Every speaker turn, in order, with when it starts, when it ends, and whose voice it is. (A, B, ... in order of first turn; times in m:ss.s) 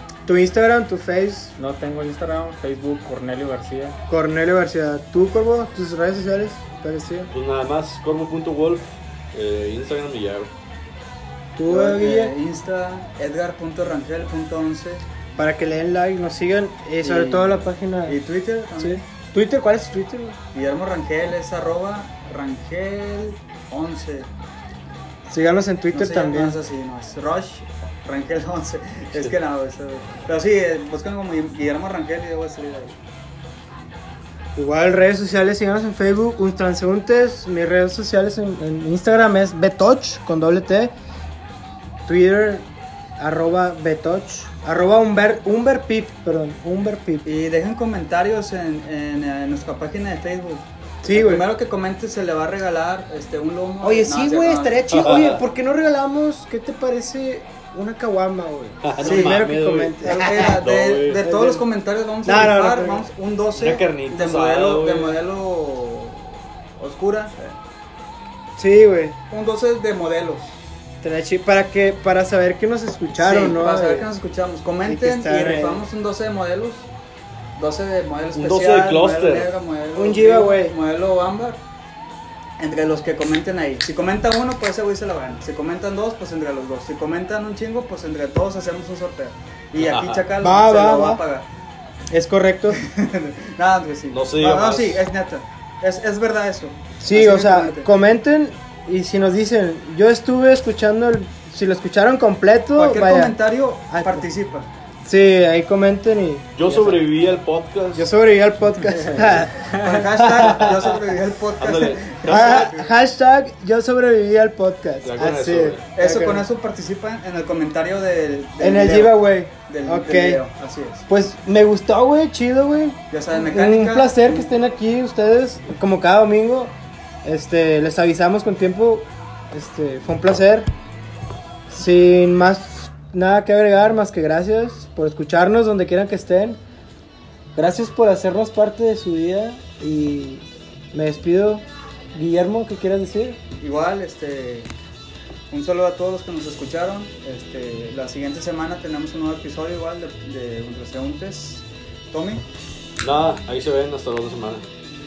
0:00.2-0:01.5 A
0:01.6-0:04.0 B
0:04.1-0:07.3 A
0:07.3-0:10.5 C
0:11.6-0:12.3 A
0:11.7-0:15.1 D
0:15.4-0:18.2 A
0:17.0-0:19.0 D
0:18.8-0:20.4 A
0:20.5-0:24.3 D
0:25.3-0:26.6 A
0:25.9-0:33.0 D
0:34.5-0:40.9 A
0:42.0-0:42.6 A
0:43.2-0:47.3 A
0:47.2-0:54.9 D
0:51.0-0:51.5 A
0:53.8-1:00.6 A
0:54.9-0:55.4 C
0:58.8-1:01.2 C
0:59.0-0:59.4 D
1:00.0-1:07.6 D
1:01.2-1:01.6 A
1:02.2-1:03.0 A
1:03.6-1:05.2 C
1:08.6-1:09.2 A
1:09.3-1:10.6 D
1:11.0-1:14.1 A
1:13.1-1:16.9 D
1:14.8-1:15.8 A
1:17.6-1:21.6 D
1:18.3-1:19.5 C
1:19.9-1:20.8 A
1:22.6-1:31.5 D
1:29.8-1:30.3 C
1:30.4-1:31.2 A
1:32.1-1:32.8 A
1:32.7-1:37.9 D
1:34.1-1:35.0 C
1:37.0-1:44.2 A
1:42.8-1:44.7 D
1:45.0-1:47.0 A
1:46.5-1:48.1 C
1:47.9-1:50.6 A
1:49.7-1:52.9 D
1:51.6-1:52.7 C
1:52.2-1:56.4 A
1:55.0-1:55.8 C
1:55.9-2:01.0 D
1:58.6-2:00.4 A
2:01.1-2:10.7 A
2:03.1-2:04.5 D
2:11.7-2:16.6 A
2:17.5-2:23.4 A
2:23.6-2:24.7 D
2:25.5-2:32.4 D
2:33.0-2:34.6 C